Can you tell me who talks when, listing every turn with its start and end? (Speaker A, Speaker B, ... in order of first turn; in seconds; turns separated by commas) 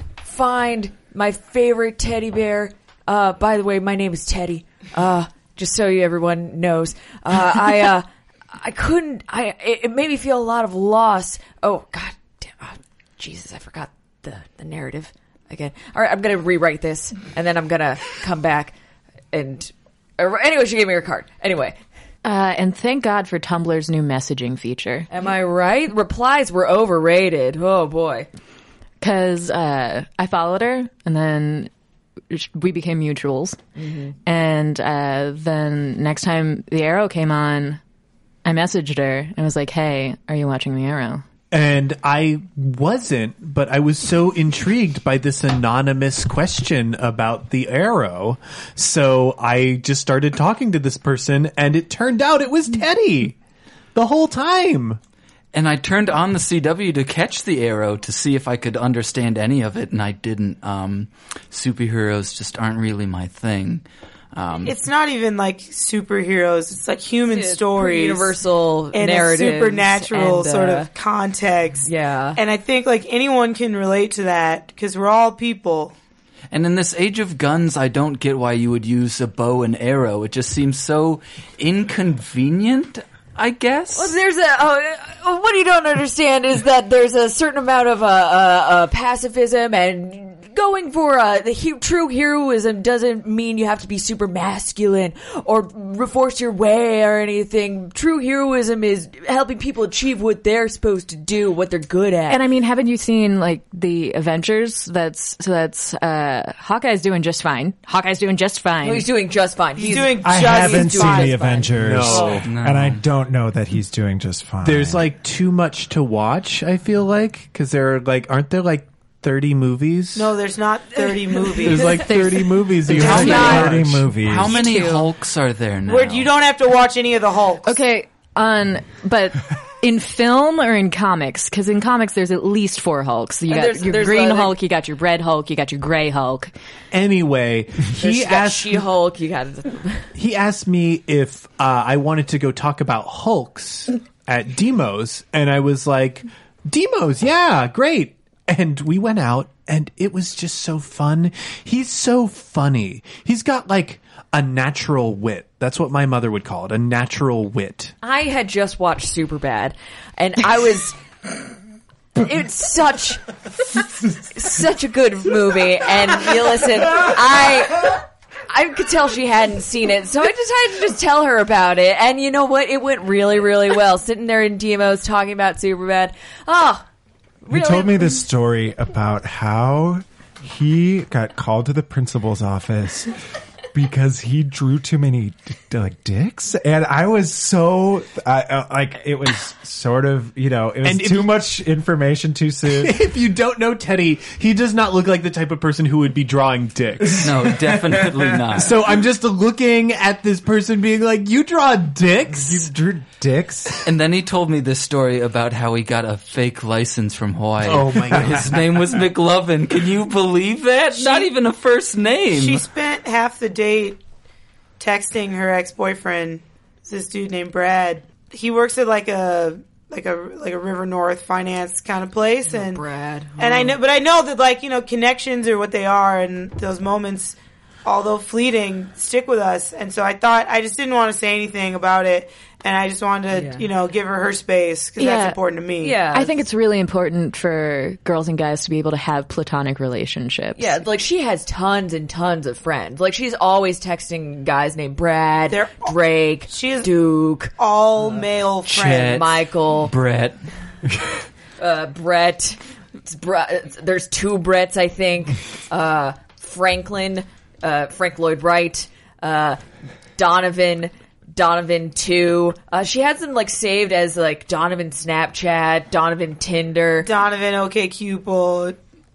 Speaker A: 0.2-18.7, Speaker A: 19.3-21.8, Speaker B: 22.2-25.1, Speaker A: 25.1-28.3, Speaker B: 29.0-31.7, Speaker B: 32.3-33.6, Speaker A: 33.8-34.1, Speaker B: 34.2-37.8, Speaker B: 38.4-41.2, Speaker C: 41.5-53.4, Speaker C: 53.9-55.0, Speaker D: 55.5-64.8, Speaker E: 64.6-68.4, Speaker A: 67.3-70.9, Speaker E: 68.9-75.9, Speaker A: 71.8-72.4, Speaker D: 76.5-84.1, Speaker A: 83.9-102.4, Speaker B: 102.3-109.0, Speaker A: 108.8-112.4, Speaker E: 109.8-111.4, Speaker F: 110.2-115.1, Speaker C: 111.8-112.5, Speaker D: 112.4-113.0, Speaker C: 114.6-120.3, Speaker E: 120.1-122.0, Speaker A: 121.1-122.0, Speaker C: 121.6-124.1, Speaker B: 122.0-123.7, Speaker A: 123.0-123.8, Speaker F: 123.0-124.6, Speaker D: 124.2-126.3, Speaker A: 124.4-125.0, Speaker E: 125.8-127.8, Speaker B: 127.6-136.5, Speaker A: 133.5-134.6, Speaker C: 136.9-138.8, Speaker A: 138.0-140.1, Speaker C: 140.1-157.9, Speaker A: 158.0-161.0, Speaker A: 162.1-176.8, Speaker A: 177.4-178.2, Speaker F: 177.5-183.1, Speaker F: 183.7-193.0, Speaker C: 190.8-191.4, Speaker C: 192.7-197.5, Speaker D: 197.2-198.8, Speaker F: 197.7-198.4, Speaker C: 198.5-202.7, Speaker F: 202.3-203.8, Speaker D: 203.8-212.6, Speaker C: 207.6-208.6, Speaker E: 211.0-211.3, Speaker E: 212.3-214.0, Speaker E: 214.8-222.8, Speaker A: 222.5-223.8, Speaker E: 223.4-236.0, Speaker A: 233.3-233.7, Speaker B: 235.0-235.4, Speaker A: 235.8-236.3, Speaker B: 236.1-240.8, Speaker A: 240.6-247.5, Speaker E: 245.5-245.9, Speaker E: 246.5-246.9, Speaker E: 247.6-249.2, Speaker D: 248.7-250.4, Speaker A: 249.0-249.9, Speaker A: 251.6-259.6, Speaker A: 260.2-267.1, Speaker E: 267.0-268.8